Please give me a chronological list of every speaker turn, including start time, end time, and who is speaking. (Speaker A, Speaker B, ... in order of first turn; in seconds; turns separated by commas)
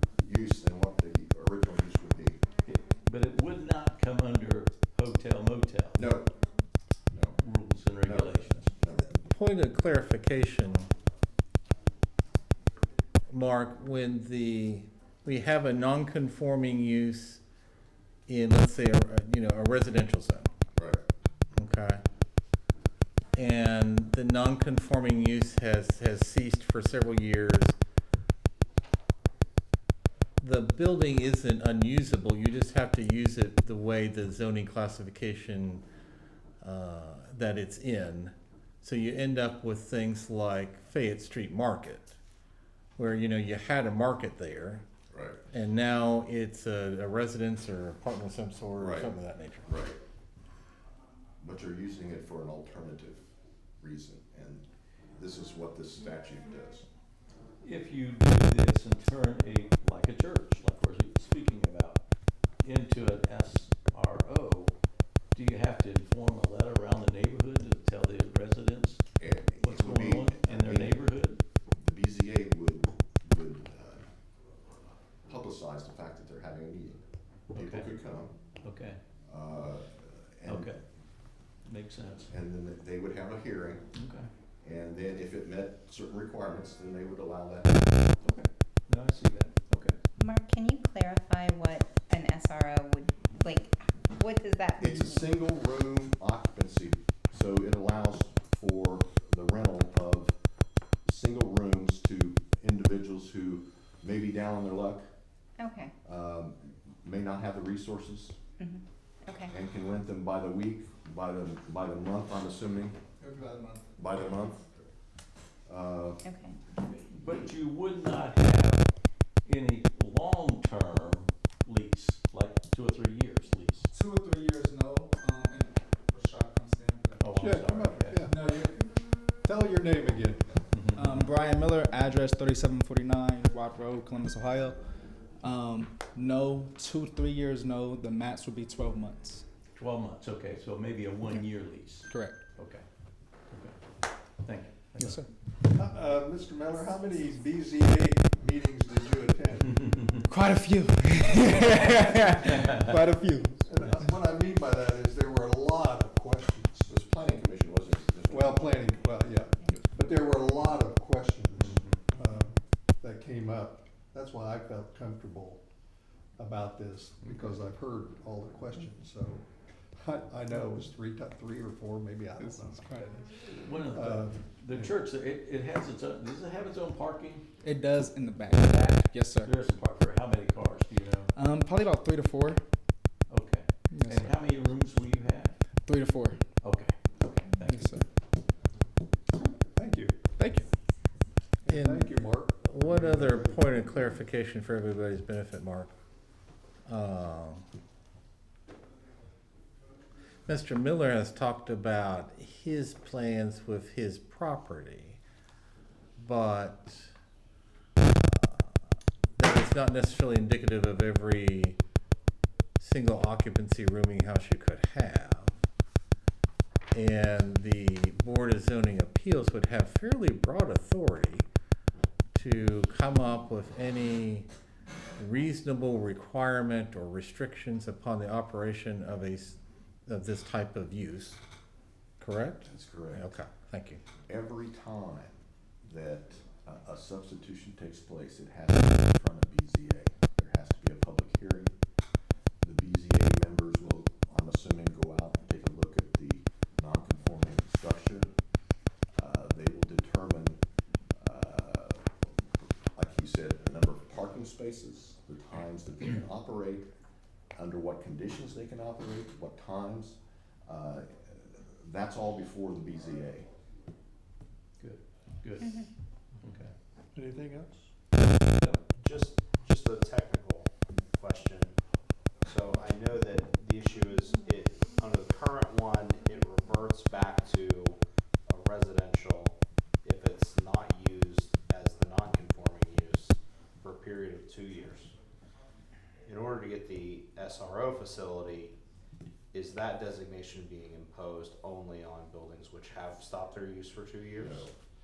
Speaker A: 0.2-2.4, Speaker B: 2.7-6.0, Speaker A: 6.0-6.3, Speaker A: 7.1-7.4, Speaker B: 7.4-8.7, Speaker A: 8.0-9.2, Speaker C: 9.2-10.9, Speaker C: 13.3-17.4, Speaker C: 18.3-20.5, Speaker A: 20.8-21.0, Speaker C: 21.6-22.0, Speaker C: 23.3-27.8, Speaker C: 30.4-35.8, Speaker C: 36.6-42.2, Speaker C: 43.0-44.9, Speaker A: 45.1-45.4, Speaker C: 45.5-49.7, Speaker A: 48.8-49.1, Speaker A: 49.7-50.0, Speaker A: 51.4-53.3, Speaker A: 53.8-54.6, Speaker A: 55.2-56.9, Speaker B: 57.6-62.0, Speaker B: 62.6-64.8, Speaker B: 65.3-69.0, Speaker A: 69.2-71.0, Speaker B: 69.6-71.4, Speaker A: 71.7-74.0, Speaker A: 75.3-77.0, Speaker A: 77.5-78.3, Speaker B: 77.5-77.9, Speaker B: 78.6-79.0, Speaker A: 79.3-80.8, Speaker B: 80.5-80.8, Speaker B: 81.7-82.3, Speaker A: 82.3-83.8, Speaker B: 84.0-84.3, Speaker A: 84.6-87.9, Speaker B: 88.2-90.0, Speaker D: 90.2-95.3, Speaker A: 94.8-100.3, Speaker A: 101.1-105.1, Speaker D: 105.6-105.9, Speaker A: 106.0-108.4, Speaker D: 108.6-109.5, Speaker A: 109.5-113.0, Speaker E: 113.2-113.9, Speaker A: 114.0-114.7, Speaker A: 115.7-116.2, Speaker D: 116.2-116.8, Speaker B: 117.1-118.9, Speaker B: 119.5-123.9, Speaker E: 123.9-127.4, Speaker B: 127.2-128.2, Speaker F: 127.4-128.3, Speaker E: 128.2-128.9, Speaker F: 129.4-130.6, Speaker B: 130.7-131.3, Speaker E: 130.9-134.8, Speaker E: 135.4-139.4, Speaker B: 139.8-142.8, Speaker E: 142.1-142.4, Speaker B: 143.5-143.8, Speaker B: 144.4-145.3, Speaker E: 145.0-145.3, Speaker F: 145.7-150.2, Speaker E: 150.3-153.8, Speaker F: 153.7-156.9, Speaker A: 156.9-158.8, Speaker F: 158.3-165.6, Speaker F: 166.4-169.4, Speaker F: 170.0-173.3, Speaker B: 173.4-177.4, Speaker F: 173.9-174.3, Speaker E: 177.6-179.6, Speaker B: 178.5-181.3, Speaker E: 181.3-182.6, Speaker B: 183.3-185.6, Speaker E: 183.9-184.3, Speaker E: 185.8-186.4, Speaker B: 186.6-188.0, Speaker E: 187.6-188.1, Speaker F: 189.8-190.3, Speaker E: 190.3-190.7, Speaker F: 191.7-193.6, Speaker C: 191.7-195.9, Speaker C: 196.9-197.7, Speaker C: 200.5-205.2, Speaker C: 206.2-207.1, Speaker C: 208.2-208.8, Speaker C: 209.4-211.8, Speaker C: 212.8-215.6, Speaker C: 216.9-221.5, Speaker C: 222.3-224.5, Speaker C: 225.2-231.4, Speaker C: 232.2-234.0, Speaker A: 232.7-233.4, Speaker A: 234.3-241.7, Speaker A: 242.6-248.3, Speaker A: 249.2-250.6, Speaker A: 251.2-252.2, Speaker A: 252.9-256.9, Speaker A: 257.6-263.5, Speaker B: 264.8-265.8, Speaker D: 265.6-265.9, Speaker B: 266.4-266.7, Speaker F: 267.1-267.8, Speaker G: 268.9-271.8, Speaker G: 272.4-285.1, Speaker G: 286.3-288.8, Speaker G: 289.5-294.7, Speaker A: 294.4-294.7